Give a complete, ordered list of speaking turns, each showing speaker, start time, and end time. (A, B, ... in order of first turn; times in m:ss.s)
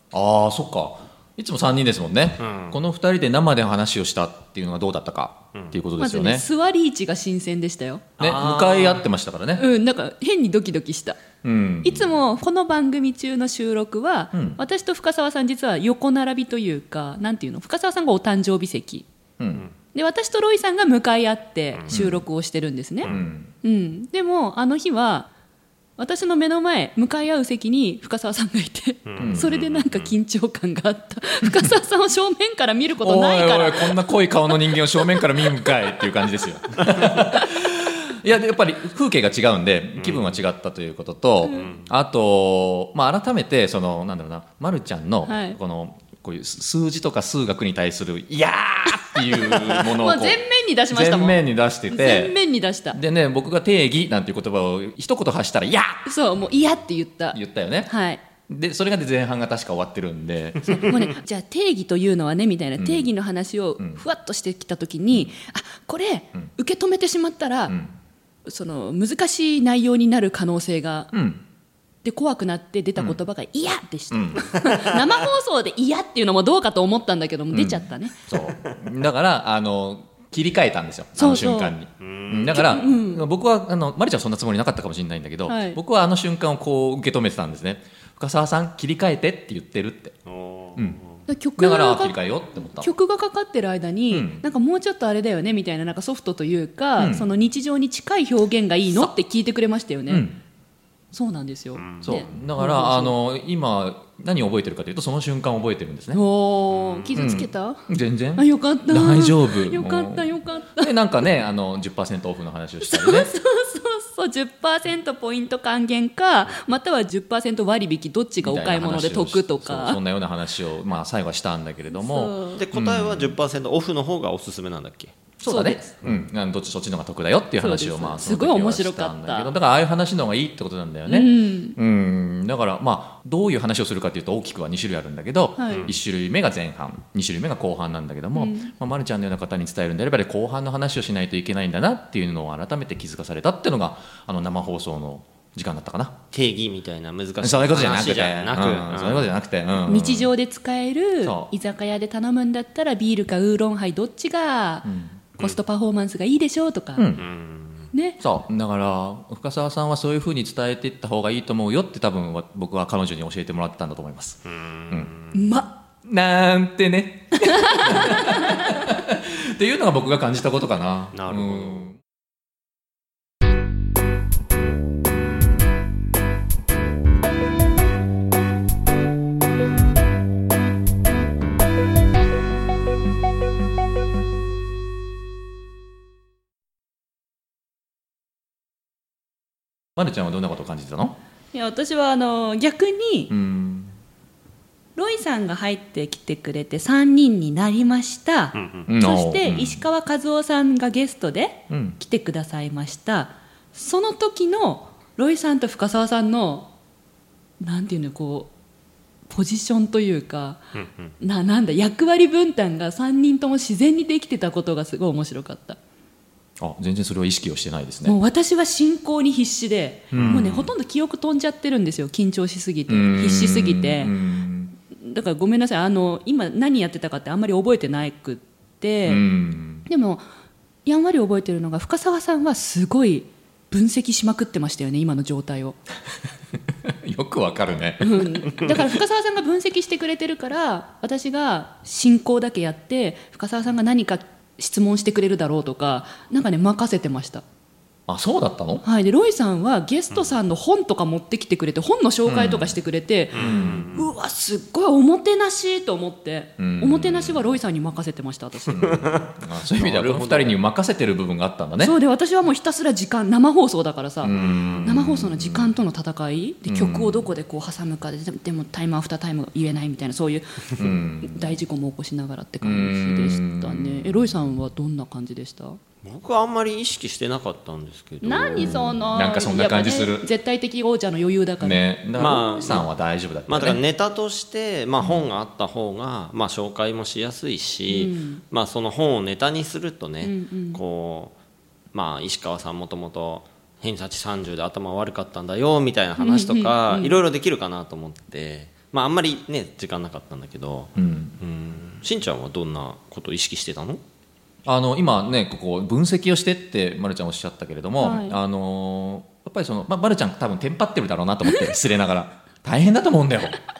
0:00.1-0:06.4 A
0:02.4-0:02.8 B
0:06.0-0:08.0 C
0:08.2-0:09.1 B
0:08.2-0:09.6 A
0:09.6-0:11.2 C
0:11.4-0:12.1 A
0:11.8-0:19.1 C
0:14.3-0:14.6 A
0:19.4-0:19.7 A
0:19.9-0:23.1 C
0:21.9-0:22.2 A
0:23.0-0:23.5 A
0:23.6-0:25.3 C
0:26.0-0:35.8 C
0:29.1-0:30.1 B
0:29.2-0:29.5 A
0:33.0-0:52.4 A
0:40.0-0:40.4 B
0:41.6-0:41.9 B
0:45.2-0:45.6 C
0:49.8-0:53.0 C
0:52.9-0:56.0 A
0:56.0-0:58.2 C
0:57.3-0:57.9 A
0:58.5-1:00.9 A
1:00.6-1:07.8 C
1:02.8-1:03.1 A
1:07.7-1:07.9 A
1:08.5-1:11.1 C
1:11.1-1:11.4 A
1:12.0-1:18.2 C
1:14.1-1:14.7 A
1:17.5-1:30.2 A
1:21.2-1:21.8 C
1:22.0-1:22.6 B
1:22.5-1:23.2 C
1:25.5-1:25.8 C
1:30.2-1:31.2 B
1:31.3-1:32.2 C
1:31.6-1:32.9 A
1:32.8-1:40.3 C
1:34.1-1:34.4 A
1:37.0-1:37.3 A
1:40.1-1:40.4 A
1:41.1-1:43.1 C
1:41.8-1:42.2 B
1:42.0-1:46.2 A
1:46.1-1:50.9 C
1:46.7-1:47.2 B
1:47.1-1:53.3 A
1:52.8-2:00.0 C
1:58.4-2:03.4 A
2:01.9-2:02.6 C
2:02.6-2:05.2 B
2:05.4-2:26.2 A
2:05.4-2:05.9 C
2:07.6-2:09.5 C
2:11.1-2:11.8 C
2:15.6-2:15.9 C
2:18.4-2:18.7 C
2:26.3-2:29.3 B
2:27.4-2:30.3 A
2:29.9-2:37.1 C
2:31.2-2:31.5 A
2:34.8-2:35.2 A
2:37.0-2:37.2 A
2:37.2-2:37.9 B
2:37.9-2:38.2 C
2:38.2-2:45.1 A
2:44.5-2:45.4 B
2:45.3-2:45.8 C
2:46.0-2:52.0 A
2:47.4-2:48.7 C
2:51.1-2:51.9 B
3:10.0-3:11.2 A
3:11.5-3:13.3 C
3:13.3-3:13.9 A
3:15.0-3:26.7 C
3:18.5-3:18.9 B
3:18.9-3:19.8 A
3:21.7-3:22.0 A
3:27.6-3:28.5 C
3:29.3-3:30.6 C
3:30.8-3:31.1 B
3:31.2-3:35.8 C
3:36.6-3:38.2 A
3:38.0-3:44.1 C
3:40.1-3:40.7 A
3:40.1-3:40.4 B
3:42.9-3:44.7 A
3:44.9-3:49.2 C
3:49.0-3:49.9 A
3:49.9-3:50.2 C
3:50.8-3:55.8 C
3:56.7-3:58.9 A
3:58.0-4:07.4 C
4:08.1-4:08.8 A
4:08.8-4:19.0 C
4:12.2-4:12.8 A
4:13.3-4:14.1 B
4:13.4-4:13.9 A
4:16.6-4:17.5 A
4:18.7-4:21.9 A
4:18.8-4:20.6 B
4:21.8-4:35.8 C
4:24.2-4:25.7 A
4:24.3-4:24.8 B
4:26.7-4:27.3 A
4:30.8-4:31.5 A
4:32.6-4:34.4 A
4:36.0-4:39.0 B
4:38.2-4:42.8 C
4:38.6-4:40.3 A
4:41.6-4:43.8 A
4:42.2-4:42.9 B
4:43.5-4:51.3 B
4:47.9-4:48.4 C
4:50.2-4:50.8 C
4:51.9-5:04.0 B
4:56.2-4:57.2 C
5:01.0-5:01.3 A
5:04.6-5:13.6 A
5:08.0-5:08.4 C